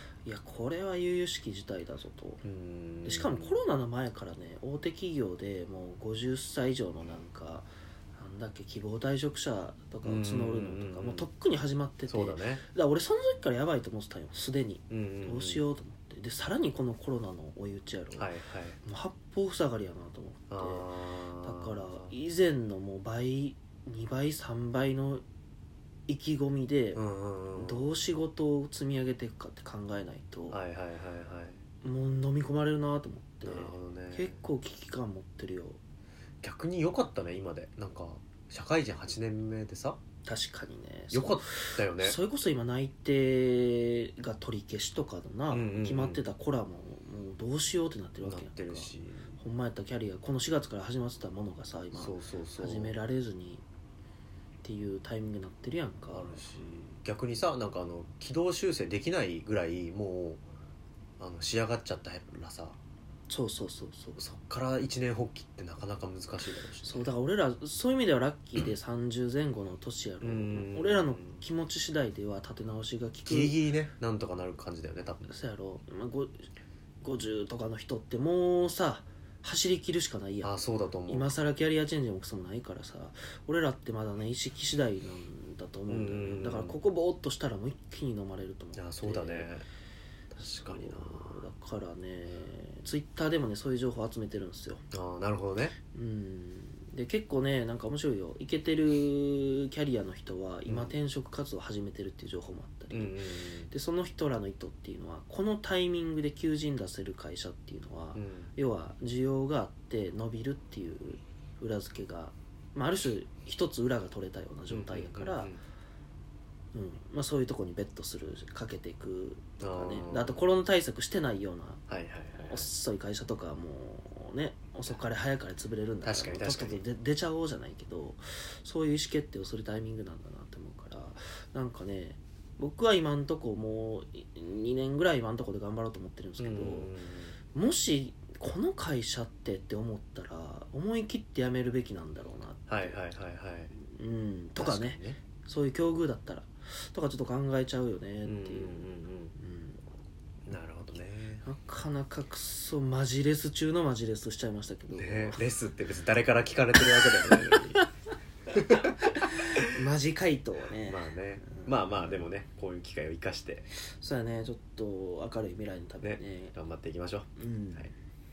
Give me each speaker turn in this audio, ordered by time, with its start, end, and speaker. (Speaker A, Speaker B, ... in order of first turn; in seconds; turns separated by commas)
Speaker A: 0.2-2.4, Speaker B: 2.4-3.6, Speaker A: 3.0-18.3, Speaker B: 10.0-11.3, Speaker B: 12.1-12.6, Speaker B: 14.9-15.6, Speaker B: 18.1-18.8, Speaker A: 18.8-20.9, Speaker B: 20.5-22.1, Speaker A: 21.4-25.2, Speaker A: 26.1-27.0, Speaker B: 26.9-27.9, Speaker A: 27.6-30.6, Speaker B: 30.5-31.6, Speaker A: 31.8-35.8, Speaker B: 33.4-34.4, Speaker B: 36.4-40.0, Speaker A: 40.2-53.6, Speaker B: 41.1-42.2, Speaker B: 45.5-46.2, Speaker B: 48.2-49.3, Speaker B: 51.9-52.9, Speaker A: 54.6-56.8, Speaker B: 56.1-60.4, Speaker B: 61.2-62.8, Speaker A: 63.3-64.2, Speaker B: 64.2-67.1, Speaker A: 66.8-73.5, Speaker B: 70.2-71.4, Speaker B: 73.2-75.3, Speaker A: 75.2-76.5, Speaker A: 77.0-80.5, Speaker B: 80.4-81.3, Speaker A: 81.1-89.5, Speaker B: 85.9-86.8, Speaker B: 88.7-89.6, Speaker B: 90.3-91.4, Speaker A: 90.4-94.8, Speaker B: 94.9-95.8, Speaker A: 95.9-103.2, Speaker B: 100.7-100.9, Speaker B: 102.9-103.7, Speaker A: 103.7-115.5, Speaker B: 108.1-108.5, Speaker B: 114.7-115.6, Speaker A: 116.7-121.8, Speaker B: 119.6-120.4, Speaker B: 121.9-122.7, Speaker A: 122.5-136.9, Speaker B: 126.0-126.8, Speaker B: 136.4-137.3, Speaker A: 137.5-143.0, Speaker B: 142.7-143.7, Speaker A: 143.7-149.8, Speaker B: 144.6-145.2, Speaker B: 148.2-149.3, Speaker B: 150.5-151.4, Speaker A: 151.4-155.4, Speaker B: 154.9-157.8, Speaker A: 157.0-157.8, Speaker B: 158.5-158.8, Speaker A: 158.7-162.2, Speaker B: 160.8-163.7, Speaker A: 163.9-166.5, Speaker B: 166.0-167.9, Speaker A: 167.4-167.9